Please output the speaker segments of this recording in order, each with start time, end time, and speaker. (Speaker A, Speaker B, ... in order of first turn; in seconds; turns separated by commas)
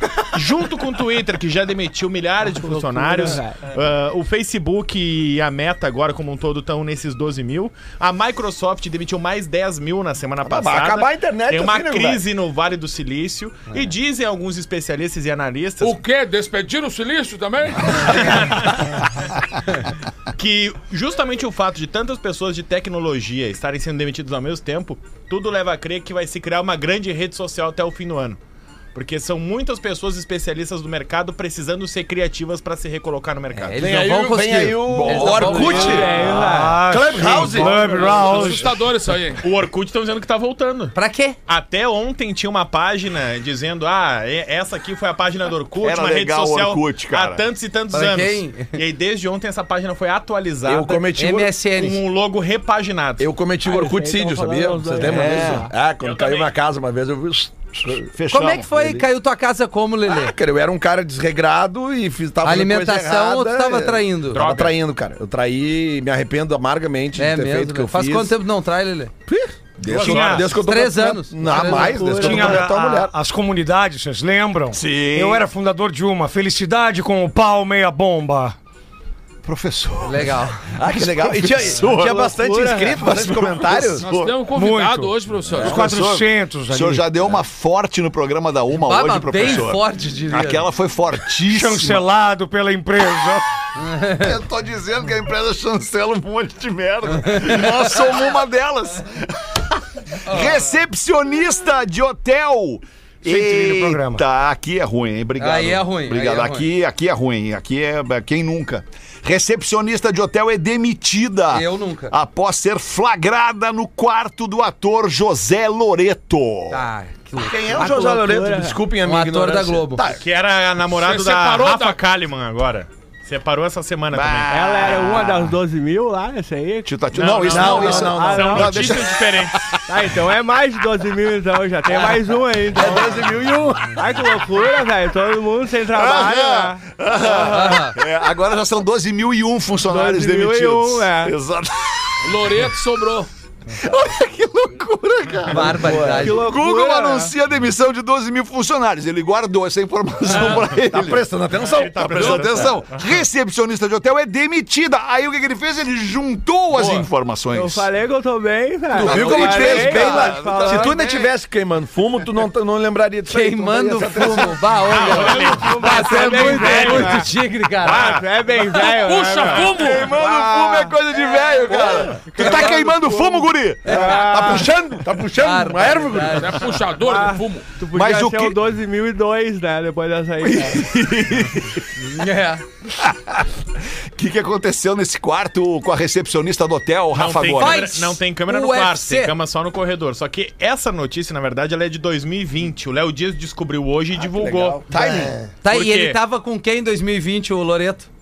Speaker A: 0.3-16.0, Speaker B: 2.4-3.6, Speaker C: 10.4-12.2, Speaker D: 15.8-18.6, Speaker A: 17.9-19.1, Speaker A: 20.4-28.4, Speaker A: 28.9-33.8, Speaker E: 33.5-36.1, Speaker C: 33.8-36.3, Speaker F: 34.9-35.9, Speaker B: 35.6-36.9, Speaker G: 36.3-38.8, Speaker C: 36.8-37.8, Speaker B: 37.5-38.5, Speaker D: 37.8-39.4, Speaker A: 39.4-41.0, Speaker E: 41.0-41.4, Speaker A: 41.5-51.0, Speaker F: 45.8-47.4, Speaker E: 47.9-48.8, Speaker C: 50.6-51.5, Speaker E: 51.2-52.0, Speaker A: 51.7-53.3, Speaker C: 53.2-58.1, Speaker B: 53.6-55.7, Speaker F: 55.0-55.7, Speaker A: 56.0-56.5, Speaker F: 58.0-58.7, Speaker E: 58.3-60.3, Speaker C: 58.8-59.0, Speaker C: 60.1-68.3, Speaker E: 62.4-64.4, Speaker A: 64.3-64.8, Speaker E: 67.2-69.1, Speaker C: 69.3-73.1, Speaker A: 69.9-70.5, Speaker G: 69.9-70.5, Speaker E: 70.5-72.2, Speaker B: 71.5-72.7, Speaker G: 72.2-78.5, Speaker F: 74.7-75.5, Speaker F: 79.4-82.2, Speaker E: 80.0-80.6, Speaker C: 80.7-84.1, Speaker B: 81.9-83.1, Speaker F: 83.0-84.3, Speaker D: 84.0-85.7, Speaker G: 84.5-87.2, Speaker F: 85.6-92.0, Speaker E: 88.7-90.7, Speaker G: 91.5-93.4, Speaker E: 93.8-94.3, Speaker F: 94.2-116.8, Speaker E: 97.2-97.8, Speaker E: 100.2-100.7, Speaker G: 103.2-104.2, Speaker E: 105.4-106.7, Speaker E: 111.5-112.1, Speaker E: 116.7-117.8, Speaker C: 117.3-120.2, Speaker B: 117.7-118.8, Speaker E: 119.0-120.0, Speaker A: 120.0-124.5, Speaker D: 120.9-122.0, Speaker F: 124.1-125.5, Speaker B: 124.5-126.9, Speaker F: 126.8-129.8, Speaker A: 127.1-129.6, Speaker C: 127.5-128.7, Speaker B: 127.5-129.0, Speaker B: 129.9-133.3, Speaker C: 132.7-134.0, Speaker B: 133.9-136.8, Speaker F: 135.9-142.1, Speaker E: 137.2-138.0, Speaker B: 139.9-141.3, Speaker D: 142.2-143.3, Speaker F: 143.7-151.3, Speaker E: 145.5-146.4, Speaker C: 145.5-146.3, Speaker B: 146.2-147.3, Speaker C: 150.9-152.7, Speaker A: 151.6-153.0, Speaker F: 151.9-157.9, Speaker A: 156.8-157.0, Speaker B: 157.5-160.9, Speaker C: 158.9-164.8, Speaker F: 159.0-161.3, Speaker E: 163.3-168.2, Speaker A: 164.9-167.2, Speaker B: 165.1-167.3, Speaker A: 167.8-168.9, Speaker B: 167.8-174.7, Speaker D: 168.8-170.2, Speaker F: 169.7-175.2, Speaker E: 173.8-174.2, Speaker C: 174.2-176.6, Speaker E: 175.4-176.6, Speaker D: 176.4-177.7, Speaker B: 177.0-180.9, Speaker F: 177.9-178.6, Speaker F: 180.4-181.8, Speaker E: 182.0-182.6, Speaker F: 183.0-183.5, Speaker F: 184.2-187.9, Speaker A: 187.1-194.9, Speaker E: 187.6-189.3, Speaker C: 194.2-195.5, Speaker E: 194.9-198.1, Speaker A: 195.6-196.2